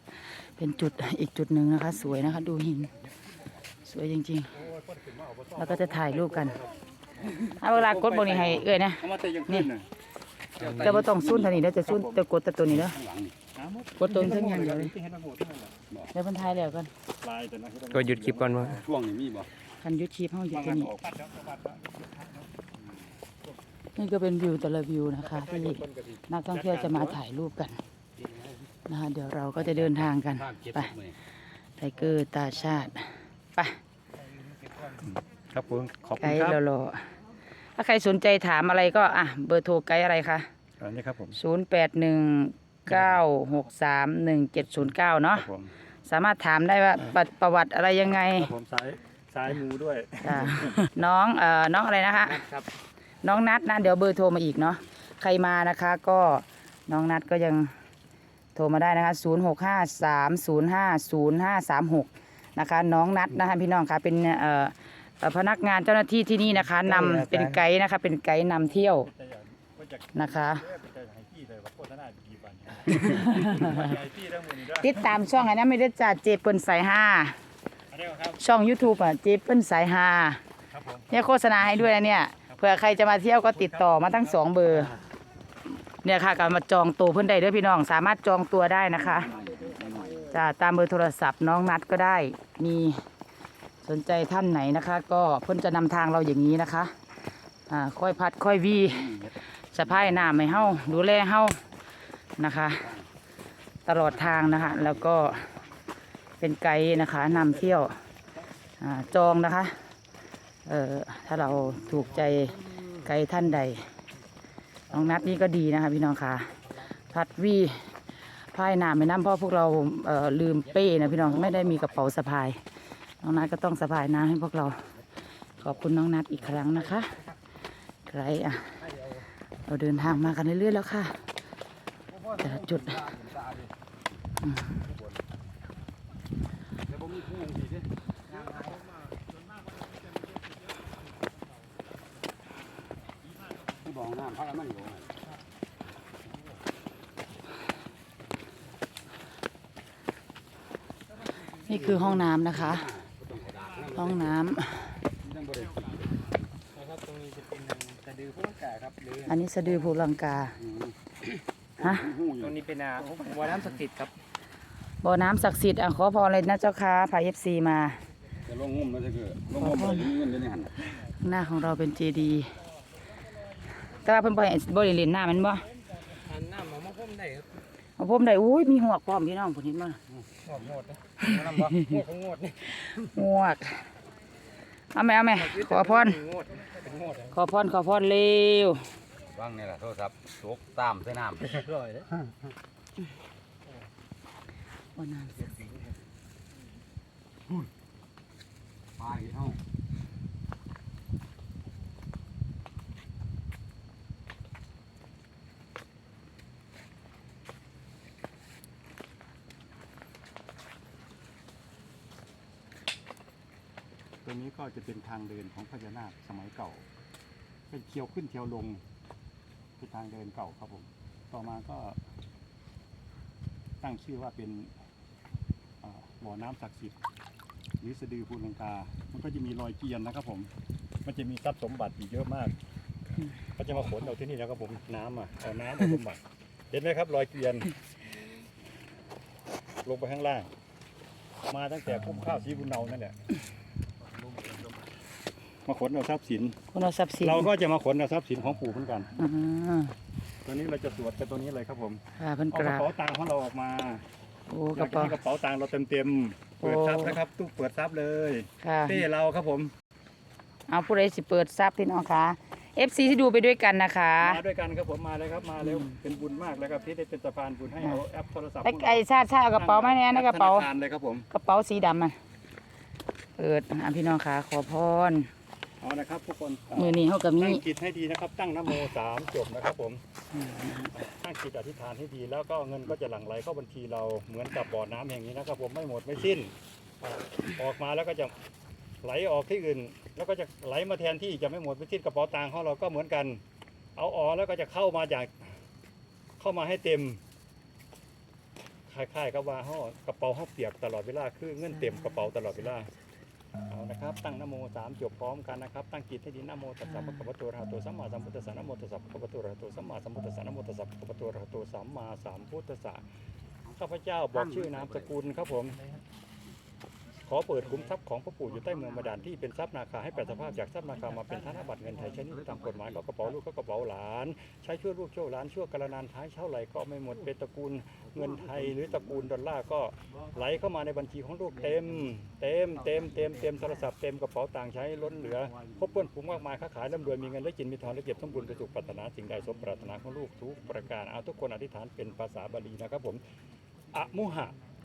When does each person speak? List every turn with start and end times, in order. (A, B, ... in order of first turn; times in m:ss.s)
0:00.4-0:02.9 A
0:03.0-0:03.7 B
0:03.8-0:04.5 A
0:04.5-0:09.9 C
0:05.6-0:06.6 A
0:07.6-0:09.7 A
0:10.6-0:12.0 B
0:10.6-0:10.9 D
0:10.8-0:13.0 A
0:11.7-0:12.2 C
0:12.7-0:13.3 B
0:13.5-0:15.8 C
0:14.0-0:14.9 A
0:16.1-0:16.9 A
0:17.2-0:18.8 C
0:17.9-0:18.8 D
0:18.6-0:19.5 B
0:19.8-0:20.9 A
0:20.5-0:22.5 C
0:22.7-0:23.1 B
0:24.0-0:27.8 A
0:25.2-0:27.2 C
0:28.2-0:28.7 B
0:28.9-0:30.9 A
0:29.6-0:31.1 B
0:31.8-0:33.8 A
0:35.0-0:36.6 C
0:36.2-0:37.1 A
0:37.8-0:40.5 A
0:40.8-0:41.4 C
0:41.3-0:45.4 A
0:42.9-0:43.2 C
0:45.3-0:45.7 C
0:46.0-0:48.5 A
0:48.3-0:50.8 C
0:50.2-0:52.4 A
0:52.2-0:52.7 D
0:53.2-0:57.7 A
0:58.5-1:09.1 A
1:07.0-1:07.4 D
1:08.8-1:15.3 C
1:10.1-1:10.6 A
1:13.0-1:13.9 A
1:14.8-1:17.4 A
1:17.9-1:18.4 C
1:18.4-1:20.4 A
1:20.7-1:21.2 C
1:21.1-1:24.9 A
1:23.4-1:24.9 C
1:26.0-1:29.3 A
1:28.9-1:30.3 B
1:29.4-1:30.0 D
1:30.3-1:33.0 A
1:33.8-1:36.9 A
1:37.7-1:39.1 A
1:38.9-1:40.8 B
1:39.7-1:41.6 A
1:42.4-1:42.9 A
1:42.8-1:43.1 B
1:43.8-1:45.5 A
1:44.0-1:45.3 B
1:46.4-1:48.0 A
1:48.8-1:49.8 A
1:50.6-1:53.9 A
1:51.5-1:53.0 B
1:54.9-1:56.6 A
1:57.1-2:02.6 A
2:00.9-2:01.8 D
2:01.2-2:01.7 B
2:03.2-2:04.9 A
2:05.6-2:07.1 A
2:06.5-2:07.3 B
2:08.0-2:08.8 A
2:08.8-2:09.2 B
2:09.7-2:11.2 A
2:12.1-2:13.7 B
2:12.4-2:13.0 A
2:14.4-2:14.8 A
2:14.8-2:15.2 B
2:16.8-2:17.9 B
2:18.3-2:18.8 D
2:23.8-2:25.2 B
2:26.2-2:26.6 B
2:31.6-2:32.9 A
2:31.6-2:34.4 B
2:33.9-2:35.0 A
2:35.2-2:36.2 B
2:36.7-2:39.4 D
2:39.3-2:40.6 A
2:40.6-2:42.6 B
2:41.8-2:42.0 A
2:42.4-2:44.1 D
2:45.0-2:48.0 A
2:48.4-2:50.7 B
2:49.6-2:50.1 A
2:51.1-2:52.5 A
2:53.9-2:55.6 A
2:56.1-2:57.6 D
2:58.0-3:00.0 A
3:00.1-3:00.8 B
3:00.4-3:02.7 D
3:01.2-3:02.0 A
3:02.7-3:03.9 A
3:04.9-3:06.2 A
3:05.3-3:07.3 D
3:07.3-3:08.8 A
3:09.3-3:11.6 B
3:11.4-3:12.1 D
3:15.0-3:15.5 A
3:15.4-3:16.0 B
3:19.0-3:19.6 B
3:34.2-3:36.8 C
3:37.7-3:38.8 C
3:39.8-3:42.0 C
3:43.8-3:44.7 C
3:45.8-3:47.0 C
3:47.8-3:50.5 C
3:51.0-3:52.5 C
3:53.6-3:57.7 C
3:59.8-4:00.5 C
4:01.5-4:03.2 C
4:04.0-4:04.9 C
4:05.6-4:06.6 C
4:06.7-4:07.5 A
4:07.2-4:09.1 C
4:09.2-4:09.9 A
4:10.4-4:14.0 C
4:12.2-4:12.9 A
4:14.5-4:15.2 A
4:14.7-4:19.7 C
4:16.6-4:17.2 A
4:18.6-4:19.1 A
4:20.7-4:24.4 A
4:24.2-4:29.0 C
4:25.6-4:26.0 A
4:28.6-4:30.7 A
4:29.6-4:31.3 C
4:31.3-4:32.2 A
4:33.4-4:35.3 A
4:35.8-4:40.0 C
4:36.7-4:37.6 A
4:40.3-4:41.0 A
4:41.0-4:48.3 C
4:49.0-4:53.4 C
4:54.0-4:55.5 C
4:56.4-4:57.2 C
4:58.9-5:02.9 C
5:01.7-5:02.3 A
5:03.7-5:13.1 C
5:06.8-5:07.3 A
5:13.8-5:15.8 C
5:14.3-5:15.1 B
5:17.2-5:43.2 C
5:22.0-5:23.2 B
5:28.0-5:29.3 B
5:32.9-5:33.8 D
5:43.9-5:44.6 C